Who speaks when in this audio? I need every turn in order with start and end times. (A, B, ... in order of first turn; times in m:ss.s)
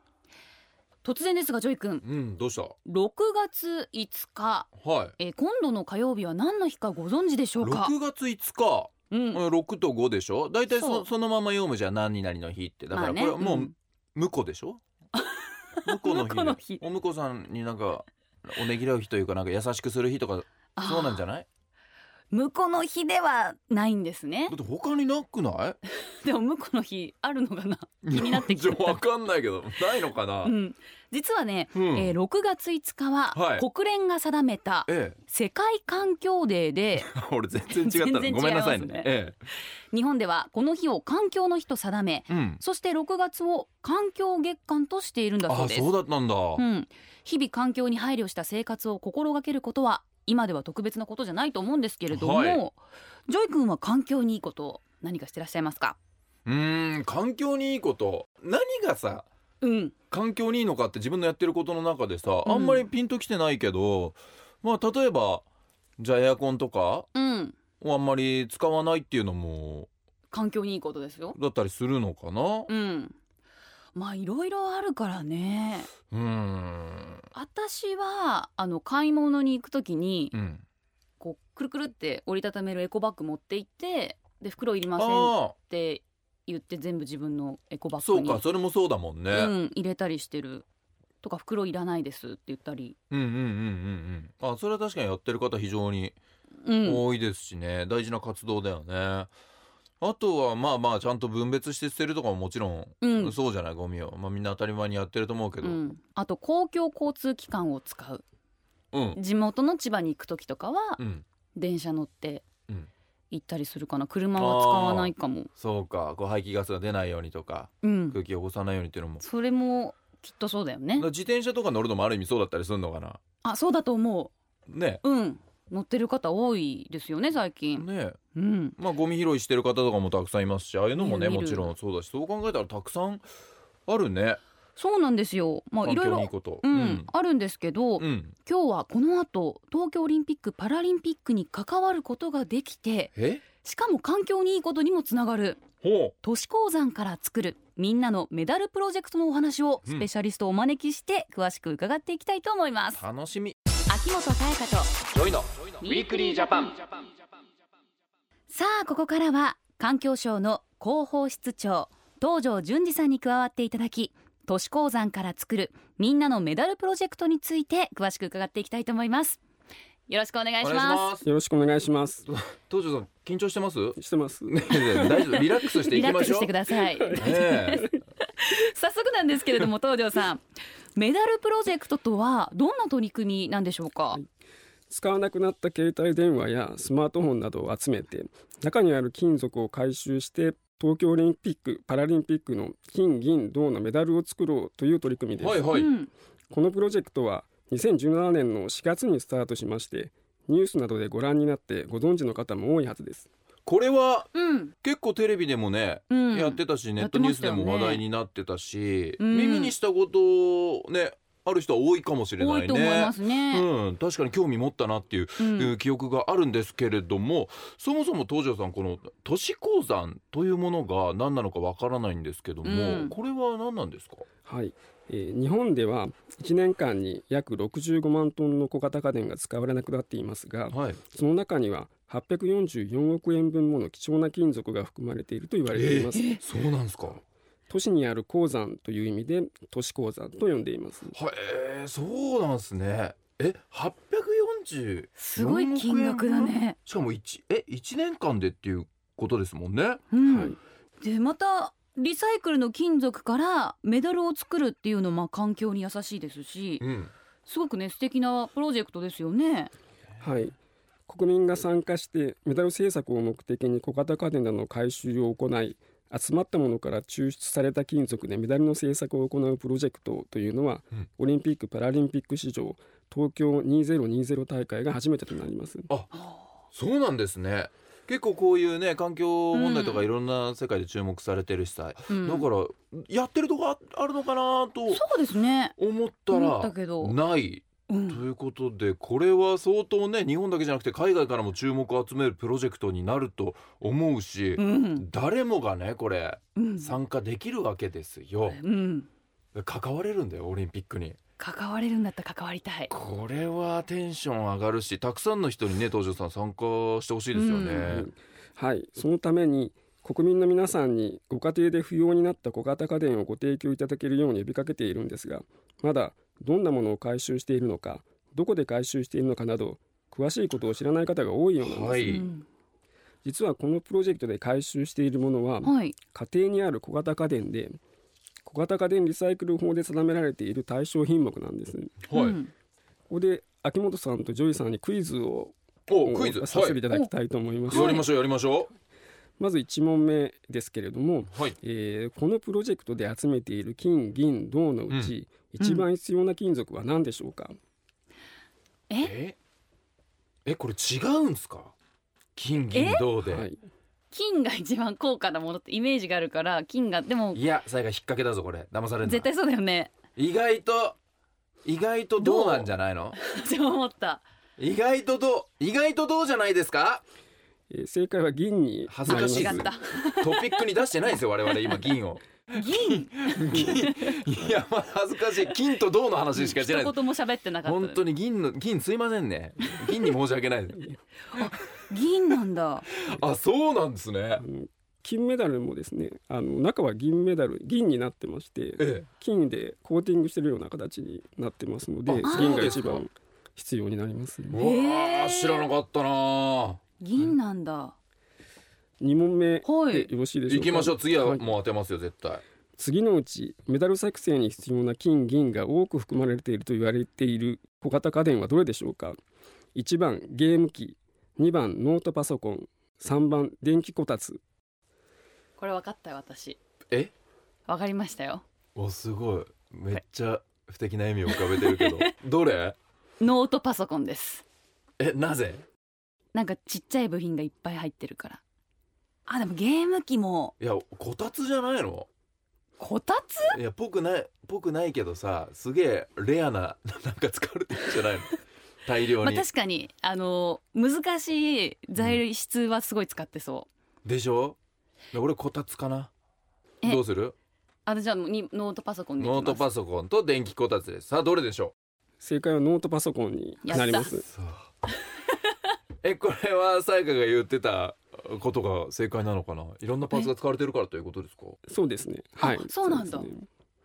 0:01.0-0:02.0 A
0:02.0-0:02.7 B
0:02.8-0:07.9 A
0:04.8-0:05.1 B
0:07.6-0:14.8 B
0:09.1-0:09.4 A
0:10.7-0:11.1 A
0:12.9-0:13.7 A
0:15.1-0:16.8 A
0:15.8-0:21.5 B
0:20.8-0:21.2 A
0:22.3-0:24.6 A
0:24.5-0:25.8 B
0:26.0-0:29.0 A
0:28.0-0:30.5 B
0:30.4-0:37.1 A
0:31.7-0:32.1 B
0:33.3-0:33.6 B
0:34.9-0:35.2 B
0:37.0-0:39.4 B
0:37.7-0:39.1 A
0:39.9-0:45.9 A
0:42.3-0:42.6 B
0:45.5-0:46.6 B
0:46.6-0:56.0 A
0:52.1-0:52.6 B
0:56.4-0:59.3 B
0:59.6-0:59.9 A
1:00.1-1:05.4 B
1:02.4-1:02.8 A
1:06.0-1:07.1 B
1:07.1-1:07.6 A
1:07.8-1:09.9 B
1:10.3-1:11.4 A
1:11.3-1:12.7 B
1:12.7-1:13.1 A
1:13.9-1:15.9 A
1:16.1-1:17.2 B
1:17.3-1:20.3 A
1:20.3-1:20.6 B
1:21.2-1:28.4 A
1:25.0-1:25.5 B
1:28.0-1:29.5 B
1:29.3-1:30.6 A
1:31.2-1:33.0 A
1:33.1-1:36.2 B
1:36.6-1:37.0 A
1:36.8-1:39.3 B
1:40.0-1:45.8 B
1:43.0-1:43.3 A
1:45.6-1:48.2 A
1:48.9-1:49.2 B
1:49.1-1:51.0 A
1:51.0-1:51.2 B
1:51.5-1:52.5 A
1:53.3-1:55.5 A
1:54.3-1:59.2 B
1:57.8-1:58.2 A
1:59.2-2:01.1 A
2:01.0-2:03.2 B
2:03.4-2:04.3 A
2:04.7-2:05.0 B
2:05.0-2:08.8 A
2:07.8-2:08.2 B
2:08.8-2:13.2 B
2:11.0-2:11.7 A
2:13.9-2:14.4 B
2:14.8-2:25.7 A
2:15.8-2:17.1 B
2:18.0-2:18.3 B
2:23.1-2:23.4 B
2:25.8-2:26.1 B
2:26.2-2:33.0 A
2:33.0-2:33.6 B
2:33.9-2:35.0 A
2:35.1-2:36.8 B
2:35.8-2:36.8 A
2:38.5-2:49.4 A
2:50.1-2:51.1 A
2:50.6-2:51.2 B
2:51.2-2:52.2 C
2:52.2-2:56.5 B
2:54.0-2:55.3 C
2:54.9-3:00.4 A
2:57.0-2:57.8 C
2:57.2-2:57.9 B
3:01.0-3:04.2 A
3:04.9-3:15.7 C
3:15.4-3:15.9 B
3:15.7-3:16.1 A
3:16.5-3:23.3 C
3:23.6-3:24.3 B
3:24.3-3:24.7 A
3:24.8-3:44.2 B
3:26.1-3:28.0 A
3:29.2-3:29.7 A
3:32.4-3:33.6 A
3:35.4-3:35.7 A
3:42.6-3:43.1 A
3:44.4-3:56.4 C
3:50.7-3:51.0 B
3:55.7-3:57.2 B
3:56.1-3:56.4 A
3:57.7-4:01.1 C
4:01.1-4:10.0 B
4:05.2-4:06.8 A
4:10.1-4:16.8 A
4:10.2-4:10.6 C
4:16.8-4:17.1 B
4:17.4-4:19.7 A
4:20.2-4:20.6 C
4:21.1-4:35.9 C
4:36.1-4:36.5 A
4:36.7-4:45.0 B
4:39.5-4:40.0 A
4:42.1-4:42.5 A
4:44.9-4:45.7 A
4:45.8-4:58.6 B
4:46.3-4:47.2 A
4:47.9-4:48.2 A
4:54.6-4:55.0 A
4:56.6-4:57.0 A
4:58.5-4:59.1 A
4:59.5-5:01.2 B
5:01.4-5:02.9 A
5:02.9-5:08.1 B
5:07.3-5:07.9 A
5:07.8-5:22.2 C
5:21.6-5:22.2 B
5:22.1-5:22.4 A
5:23.2-5:27.8 C
5:25.6-5:26.0 A
5:28.4-5:32.0 C
5:32.1-5:32.4 B
5:32.1-5:32.5 A
5:33.1-5:38.0 C
5:35.9-5:36.8 B
5:37.7-5:38.7 B
5:37.7-5:38.0 A
5:39.4-5:47.6 C
5:45.6-5:45.9 A
5:49.0-5:49.4 B
5:50.4-5:51.7 B
5:52.4-5:53.5 B
5:52.7-5:53.0 A
5:53.2-5:53.6 C
5:54.1-5:57.4 A
5:57.3-5:59.3 B
5:59.0-6:00.0 A
6:00.2-6:01.0 B
6:01.6-6:03.2 B
6:02.2-6:04.2 A
6:04.6-6:07.0 B
6:07.7-6:09.7 C
6:08.9-6:16.9 B
6:09.1-6:10.6 A
6:12.5-6:14.1 A
6:16.3-6:18.0 A
6:17.6-6:20.9 B
6:21.3-6:22.8 A
6:22.9-6:24.4 B
6:24.4-6:34.6 C
6:28.8-6:29.0 B
6:32.1-6:33.0 B
6:32.3-6:32.6 A
6:34.5-6:36.8 B
6:34.6-6:35.7 A
6:37.0-6:37.9 A
6:39.0-6:41.5 C
6:39.6-6:40.1 A
6:40.5-6:42.4 B
6:42.8-6:49.2 C
6:49.7-6:54.4 C
6:55.6-6:56.6 A
6:57.7-6:58.4 A
6:58.8-7:02.8 B
7:01.2-7:02.1 A
7:03.2-7:04.4 A
7:05.0-7:05.6 B
7:06.3-7:08.4 A
7:09.3-7:10.5 A
7:10.6-7:12.1 B
7:12.8-7:13.6 A
7:13.5-7:19.4 B
7:19.1-7:23.7 A
7:24.0-7:24.6 B
7:25.1-7:26.1 B
7:26.8-7:27.3 B
7:27.8-7:29.6 A
7:29.2-7:31.7 B
7:32.2-7:34.3 C
7:33.6-7:34.2 A
7:33.7-7:34.6 B
7:36.0-7:41.6 B
7:41.7-7:43.5 C
7:42.4-7:43.3 A